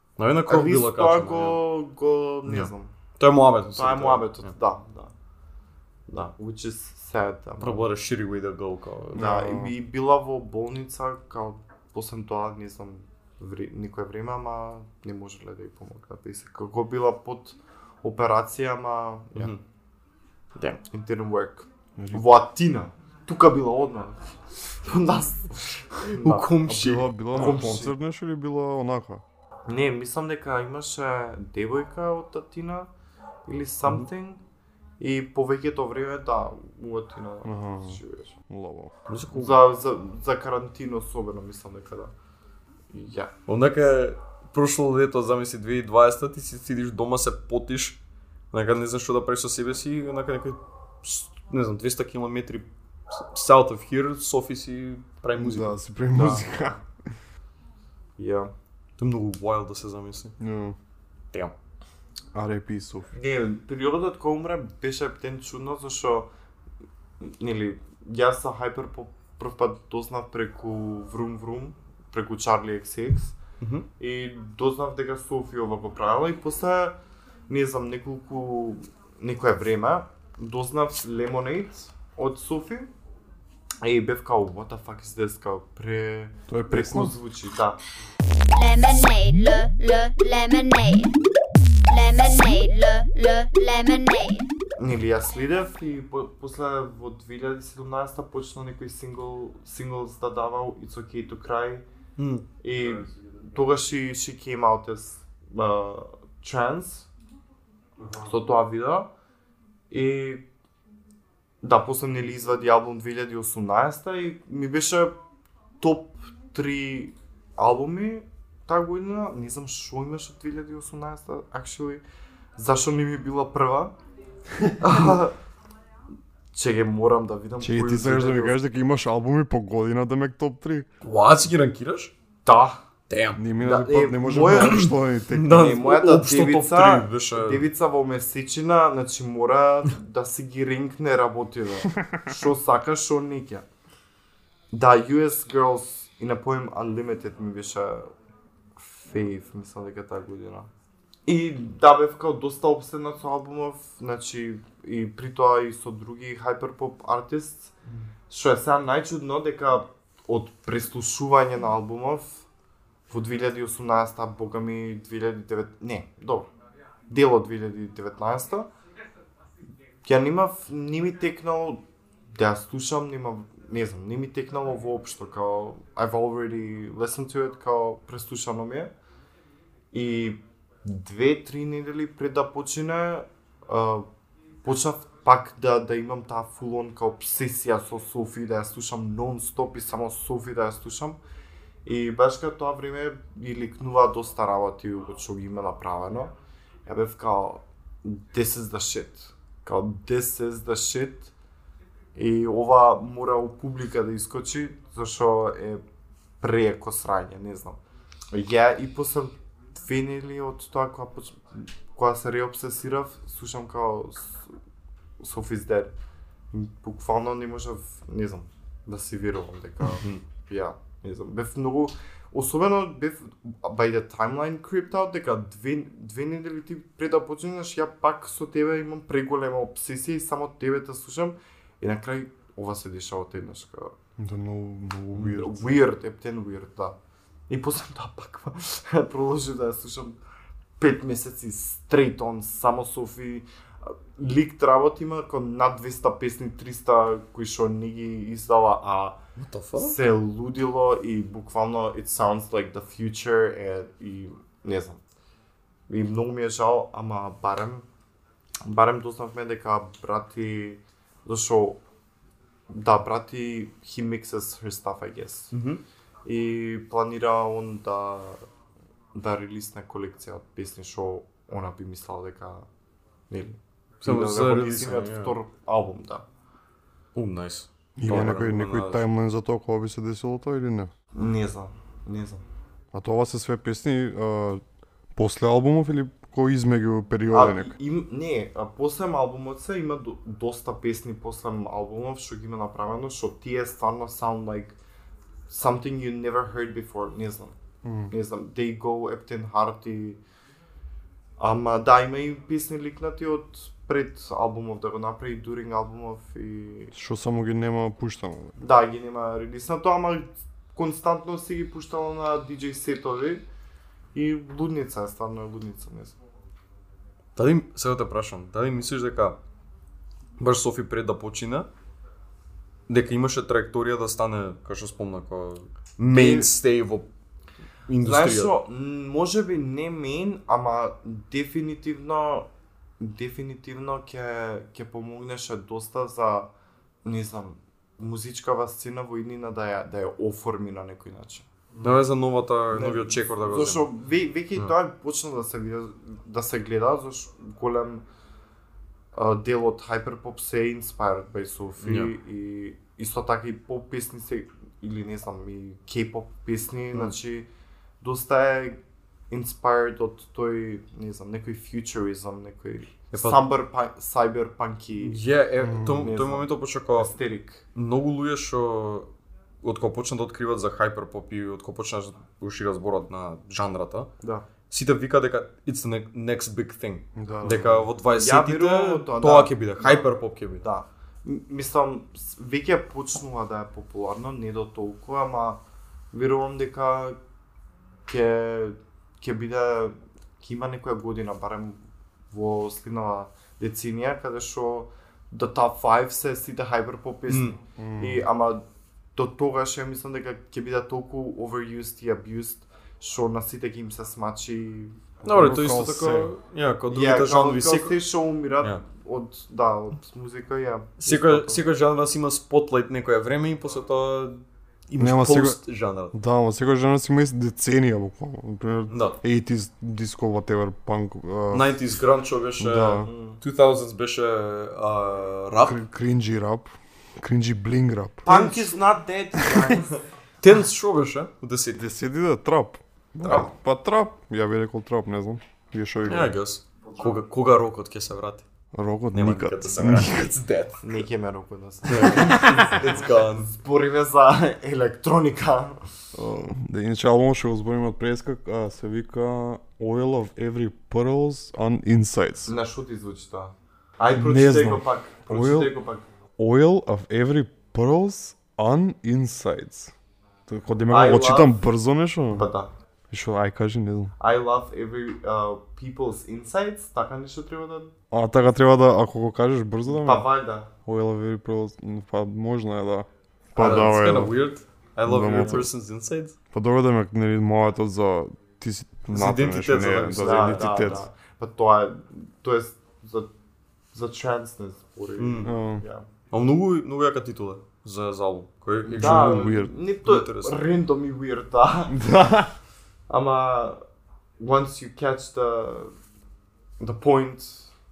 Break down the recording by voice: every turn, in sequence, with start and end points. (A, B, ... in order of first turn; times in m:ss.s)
0:00.2-0:01.6 A
0:00.5-0:02.9 B
0:02.4-0:04.5 A
0:03.8-0:05.1 B
0:06.1-0:07.8 B
0:07.6-0:09.7 A
0:09.1-0:19.5 B
0:09.2-0:09.6 C
0:20.8-0:26.5 B
0:22.0-0:22.2 C
0:26.1-0:27.1 A
0:26.6-0:29.2 C
0:27.3-0:27.9 B
0:29.7-0:32.9 B
0:33.5-0:34.4 B
0:35.0-0:38.3 B
0:37.4-0:38.9 C
0:39.1-0:39.6 A
0:39.3-0:42.1 B
0:42.9-0:43.3 B
0:43.5-0:48.0 A
0:48.5-0:55.8 A
0:55.4-0:57.2 C
0:56.1-0:56.5 B
0:58.2-0:58.5 B
0:59.0-1:00.3 A
1:00.4-1:00.8 C
1:02.3-1:03.1 C
1:03.1-1:06.3 B
1:07.2-1:13.4 B
1:13.6-1:13.9 A
1:14.0-1:17.0 B
1:17.5-1:22.9 B
1:23.8-1:27.8 B
1:26.5-1:27.2 C
1:28.5-1:31.1 D
1:31.9-1:34.5 D
1:34.8-1:41.8 B
1:42.2-1:42.4 A
1:42.6-1:47.1 B
1:48.2-1:49.1 B
1:49.9-1:50.4 B
1:51.6-1:55.1 B
1:55.8-2:02.0 B
2:02.6-2:03.9 B
2:04.8-2:05.3 B
2:06.5-2:08.6 B
2:07.6-2:10.9 C
2:11.0-2:12.1 A
2:12.4-2:12.8 B
2:13.1-2:13.4 A
2:13.4-2:15.6 C
2:13.6-2:14.9 B
2:14.5-2:17.6 A
2:15.5-2:23.6 B
2:21.9-2:22.2 C
2:24.7-2:28.1 B
2:28.8-2:30.7 B
2:31.2-2:37.7 B
2:38.3-2:42.4 B
2:43.1-2:46.5 B
2:47.1-2:48.7 B
2:50.0-2:58.9 B
2:59.9-3:04.1 B
3:04.6-3:11.2 B
3:11.8-3:16.3 B
3:16.8-3:21.3 B
3:22.1-3:25.8 B
3:26.4-3:27.8 B
3:28.3-3:34.5 B
3:35.2-3:35.9 B
3:36.5-3:53.9 B
3:39.8-3:40.2 A
3:54.2-3:55.8 C
3:55.1-3:57.0 B
3:57.5-4:00.2 B
4:00.8-4:09.2 B
4:09.4-4:10.0 A
4:09.8-4:15.0 B
4:15.9-4:17.8 B
4:18.6-4:21.8 B
4:22.7-4:25.5 B
4:25.5-4:25.8 A
4:26.2-4:28.4 B
4:29.1-4:32.7 B
4:33.3-4:36.2 B
4:34.0-4:35.3 A
4:37.1-4:39.0 A
4:38.0-4:40.9 C
4:41.1-4:42.4 B
4:42.9-4:44.6 C
4:45.1-4:47.7 C
4:47.3-4:54.8 B
4:55.5-4:57.5 B
4:57.8-4:58.1 C
4:58.1-5:00.2 B
5:01.4-5:06.9 B
5:06.9-5:08.6 C
5:08.6-5:13.4 B
5:14.1-5:16.2 B
5:17.4-5:19.4 A
5:20.4-5:21.7 A
5:22.9-5:27.1 A
5:26.1-5:26.5 B
5:27.9-5:28.5 A
5:28.0-5:32.5 B
5:33.0-5:36.5 B
5:37.0-5:41.4 B
5:41.8-5:43.9 A
5:42.7-5:48.0 B
5:49.1-5:57.5 B
5:51.8-5:52.1 A
5:58.0-6:05.2 B
6:03.1-6:03.4 A
6:05.0-6:07.1 A
6:05.6-6:06.1 C
6:05.8-6:07.6 B
6:07.7-6:09.1 A
6:09.6-6:14.1 A
6:14.7-6:20.6 A
6:17.2-6:17.9 C
6:18.2-6:25.6 B
6:26.1-6:27.2 B
6:28.1-6:38.6 B
6:37.3-6:37.6 A
6:37.8-6:38.3 C
6:39.1-6:45.0 B
6:45.2-6:46.3 C
6:45.2-6:48.0 A
6:46.9-6:51.6 B
6:51.0-6:56.1 A
6:55.0-6:55.6 C
6:56.1-7:01.8 C
6:58.9-6:59.2 A
7:01.5-7:05.8 A
7:02.6-7:03.1 C
7:03.0-7:03.4 B
7:05.6-7:08.7 C
7:08.2-7:10.0 B
7:09.4-7:09.7 C
7:10.4-7:11.8 A
7:11.7-7:16.3 C
7:16.0-7:18.4 A
7:18.7-7:20.2 C
7:19.1-7:21.0 A
7:20.8-7:25.8 B
7:21.8-7:23.5 A
7:26.1-7:32.5 C
7:32.4-7:36.0 B
7:34.1-7:35.7 C
7:36.4-7:39.9 C
7:40.5-7:42.5 C
7:40.9-7:41.6 B
7:42.3-7:42.7 B
7:43.1-7:44.1 C
7:44.2-7:47.9 B
7:48.1-7:50.3 C
7:49.9-7:50.7 B
7:50.8-7:54.4 C
7:53.6-7:54.1 B
7:53.6-7:56.4 A
7:55.0-7:55.7 C
7:55.3-7:55.6 B
7:56.5-8:01.1 C
7:59.1-8:00.7 A
8:00.2-8:03.3 B
8:03.9-8:06.0 B
8:05.2-8:05.5 A
8:05.4-8:05.8 C
8:06.3-8:09.5 A
8:08.9-8:09.7 C
8:09.0-8:12.0 B
8:10.0-8:10.6 A
8:11.9-8:12.5 C
8:13.1-8:13.8 B
8:14.4-8:15.9 B
8:16.8-8:17.7 B